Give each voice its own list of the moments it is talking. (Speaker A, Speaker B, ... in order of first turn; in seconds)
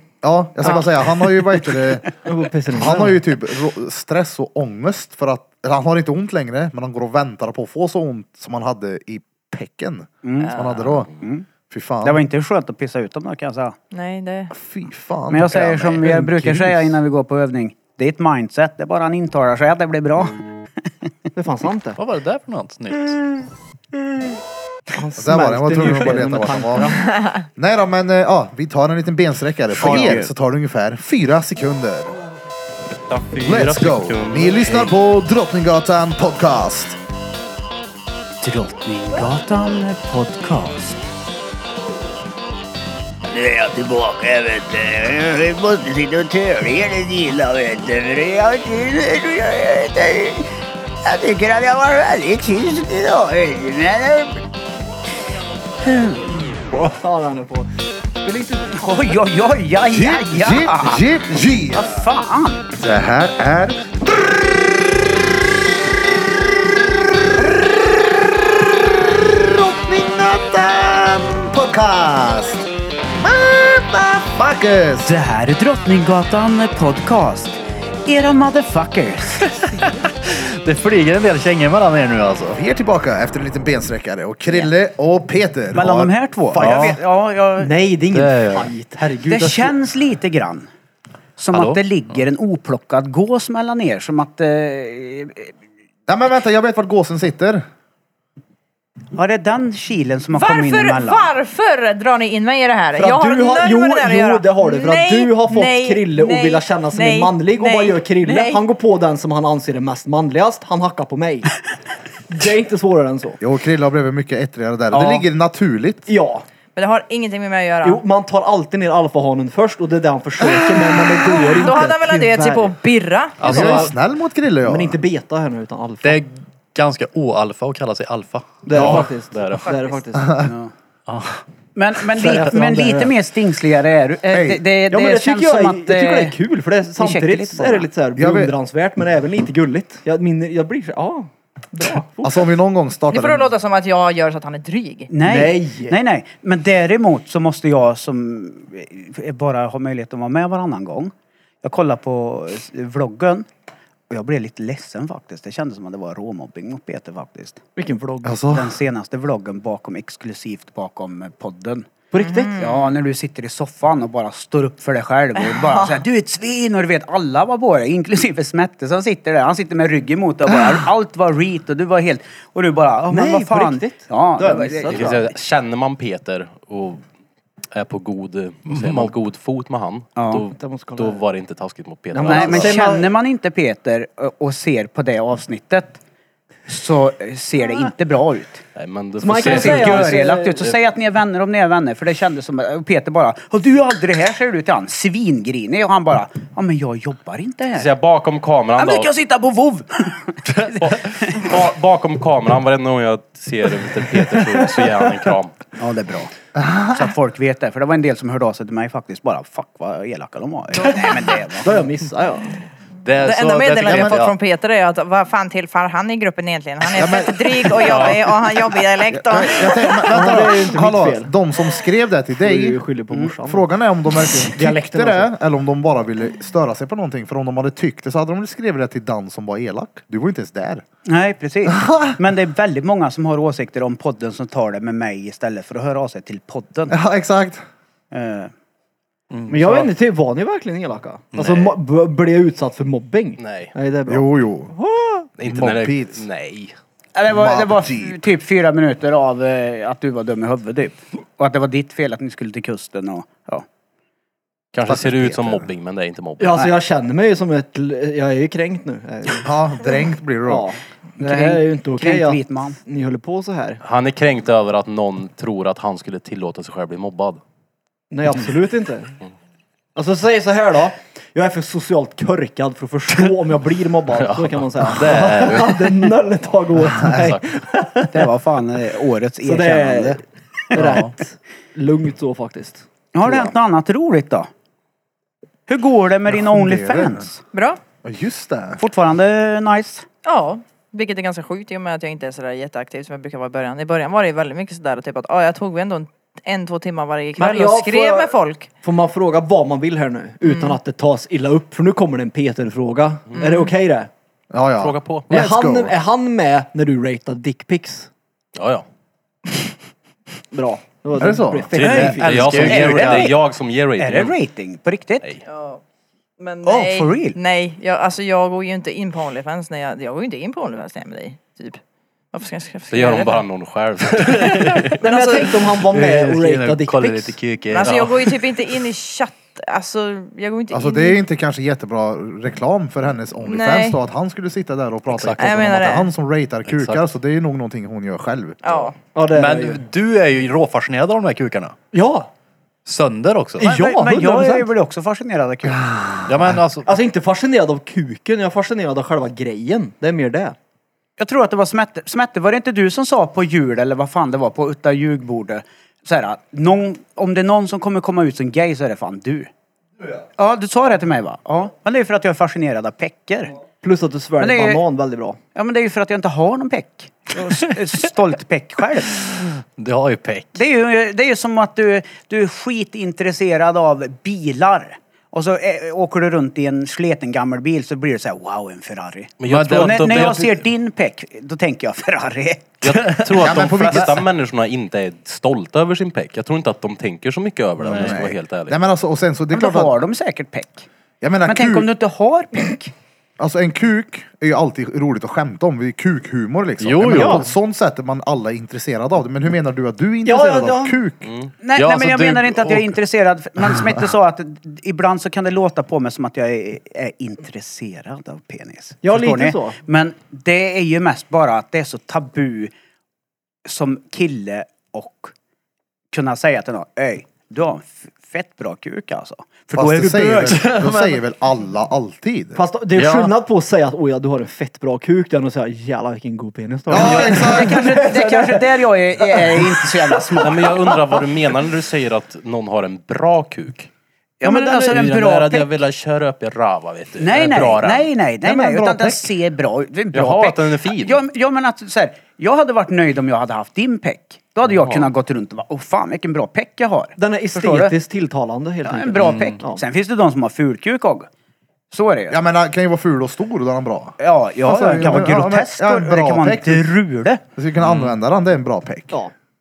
Speaker A: 0.2-2.1, 2.7-11.1, 11.7-12.2, 14.5-16.9, 25.2-26.9, 27.6-32.1, 33.5-37.0, 59.9-62.0, 62.8-75.2, 82.5-86.1, 96.1-97.6, 113.4-116.1, 123.4-125.0, 130.2-130.5, 134.3-134.6, 138.2-138.5, 142.2-143.5, 158.2-158.8, 170.5-170.8, 206.6-207.1, 213.9-214.2, 216.9-218.2, 219.1-222.8, 223.4-230.8, 231.7-232.2, 236.9-237.6, 244.1-244.7, 245.4-246.3, 247.3-248.2, 254.8-255.7, 259.4-260.7, 286.3-287.3, 288.0-288.8, 304.5-305.9, 311.2-311.7, 330.7-338.9, 345.6-346.6, 383.4-384.2, 387.9-390.0, 391.2-391.9, 393.4-401.3, 419.7-422.6, 426.9-427.9, 438.4-439.3, 452.3-456.9, 457.6-459.2
Speaker B: 2.2-3.2, 21.4-22.0, 25.0-27.0, 29.8-30.2, 56.7-57.7, 58.2-58.9, 87.6-89.7, 102.9-111.5, 112.3-113.4, 116.1-116.5, 117.8-122.8, 123.5-123.9, 124.7-126.2, 128.7-130.4, 132.2-133.1, 134.9-142.5, 145.2-146.0, 157.8-158.4, 162.1-162.6, 173.1-175.2, 180.5-181.2, 182.1-183.1, 189.2-190.6, 211.6-212.6, 220.1-221.3, 222.4-223.7, 224.4-225.3, 239.5-245.3, 256.4-259.5, 260.5-263.8, 268.1-269.1, 269.9-278.3, 279.4-283.5, 297.4-304.1, 305.3-308.1, 310.5-312.7, 325.0-327.4, 339.1-339.9, 341.9-342.3, 343.6-344.7, 346.9-350.6, 363.8-365.4, 397.1-397.4, 400.2-401.0, 409.0-409.8, 422.6-431.2, 434.4-434.9, 447.2-449.8
Speaker C: 10.2-10.6, 11.1-11.5, 12.0-13.8, 15.3-20.4, 29.8-30.3, 38.4-41.0, 55.9-56.3, 58.8-61.0, 61.7-62.6, 75.0-79.6, 85.7-87.7, 89.3-90.7, 91.4-95.5, 99.1-101.3, 114.9-115.2, 130.4-130.7, 131.8-136.3, 137.0-137.9, 145.1-153.5, 154.1-157.6, 158.5-161.9, 162.6-175.3, 180.2-180.4, 182.2-186.0, 186.7-188.6, 189.4-197.9, 198.8-201.4, 205.8-206.3, 206.9-211.7, 231.1-237.0, 238.1-238.5, 247.2-253.7, 261.2-262.8, 278.1-280.2, 283.1-284.5, 285.7-287.4, 288.8-290.1, 312.5-313.4, 314.0-315.4, 316.7-317.4, 343.6-345.9, 351.2-359.5, 360.4-363.6, 364.4-364.8, 365.6-369.3, 370.6-384.0, 389.5-390.9, 391.5-392.9, 401.6-412.7, 413.6-415.3, 416.1-420.7, 426.9-430.7, 434.4-435.7, 437.2-447.9, 448.9-451.3, 451.9-452.4, 454.2-457.4
Speaker D: 10.4-10.8, 13.9-14.5, 100.3-108.6, 116.8-118.0, 121.4-123.8, 143.1-145.1, 162.2-162.9, 165.4-166.0, 213.2-220.1, 287.5-287.8, 290.2-298.7, 300.4-300.8, 303.4-303.7, 315.4-315.8, 316.4-321.8, 322.3-323.5, 324.6-325.6, 327.7-331.2, 333.5-334.0, 335.4-336.1, 338.6-339.0
Speaker E: 22.0-23.2, 79.6-82.6, 86.5-87.0, 88.1-88.7, 91.5-91.8, 123.4-123.9, 126.0-129.1, 131.1-131.4, 178.7-179.1, 213.1-214.4, 239.3-239.9, 241.3-241.8, 274.9-275.7, 280.8-281.1, 311.8-313.4, 324.4-324.9, 325.8-328.4, 335.1-335.7, 336.6-337.0, 339.3-341.8, 342.9-343.7, 346.3-346.9, 369.4-370.6, 379.5-380.6, 387.9-388.2, 396.8-397.5, 401.8-402.9, 420.5-421.2, 422.9-423.3, 449.2-449.6, 457.8-458.1
Speaker F: 33.1-34.9, 128.8-129.7, 174.9-177.0, 177.7-182.8, 188.8-190.7, 197.8-199.1, 200.8-205.6, 243.4-243.7, 245.4-246.8, 254.7-256.6, 263.8-267.4, 274.3-275.9, 277.1-277.5, 304.8-305.3, 308.6-308.9, 311.7-314.4, 322.9-325.0, 379.4-380.6, 382.8-388.8, 401.2-401.5, 430.4-433.9, 434.9-438.1, 440.1-441.2, 444.7-445.1
Speaker G: 43.3-50.5, 51.0-54.4